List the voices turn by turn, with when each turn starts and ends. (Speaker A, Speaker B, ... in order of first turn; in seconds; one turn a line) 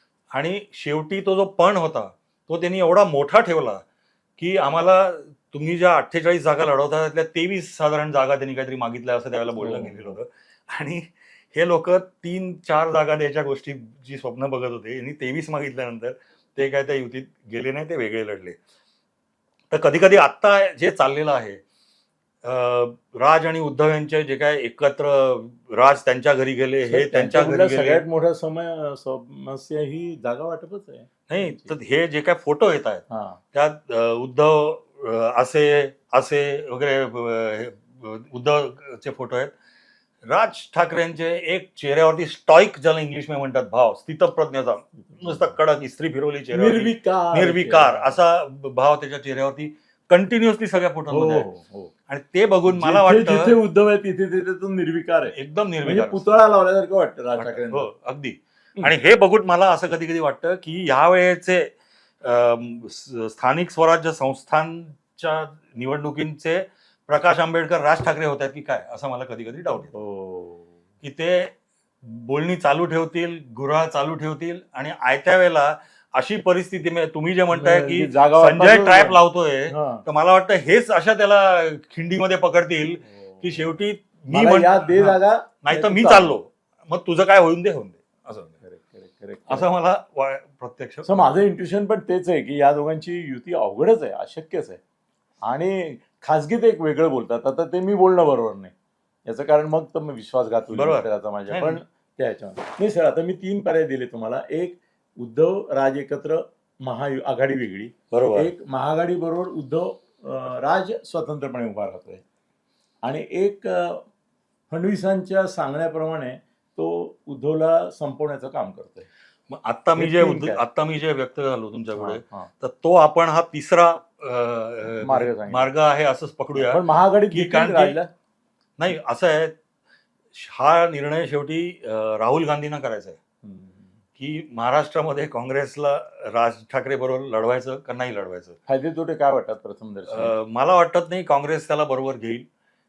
Speaker A: 0.3-3.8
Speaker A: 4.4-18.6
Speaker B: 9.5-10.2
Speaker A: 19.7-21.6
Speaker A: 22.4-28.0
Speaker B: 26.9-31.7
Speaker A: 31.3-33.0
Speaker B: 33.1-33.4
Speaker A: 33.5-39.5
Speaker A: 40.3-51.5
Speaker B: 45.0-45.5
Speaker B: 46.5-48.2
Speaker B: 51.1-51.9
Speaker A: 52.1-53.5
Speaker B: 52.7-57.9
Speaker A: 55.3-56.3
Speaker A: 57.4-70.0
Speaker B: 69.9-70.7
Speaker A: 71.0-88.6
Speaker B: 77.5-80.0
Speaker B: 83.0-83.7
Speaker B: 84.3-86.4
Speaker B: 88.6-89.7
Speaker A: 89.5-91.4
Speaker B: 91.0-94.8
Speaker B: 95.4-98.7
Speaker B: 99.3-112.2
Speaker A: 100.7-101.8
Speaker A: 108.1-108.5
Speaker B: 113.0-114.0
Speaker B: 114.7-119.1
Speaker A: 119.5-128.0
Speaker B: 120.0-120.6
Speaker B: 122.0-122.5
Speaker B: 124.9-125.7
Speaker B: 126.5-128.1
Speaker A: 128.8-129.5
Speaker A: 130.3-133.2
Speaker B: 133.4-133.9
Speaker A: 134.2-138.6
Speaker B: 138.7-140.3
Speaker A: 140.1-142.5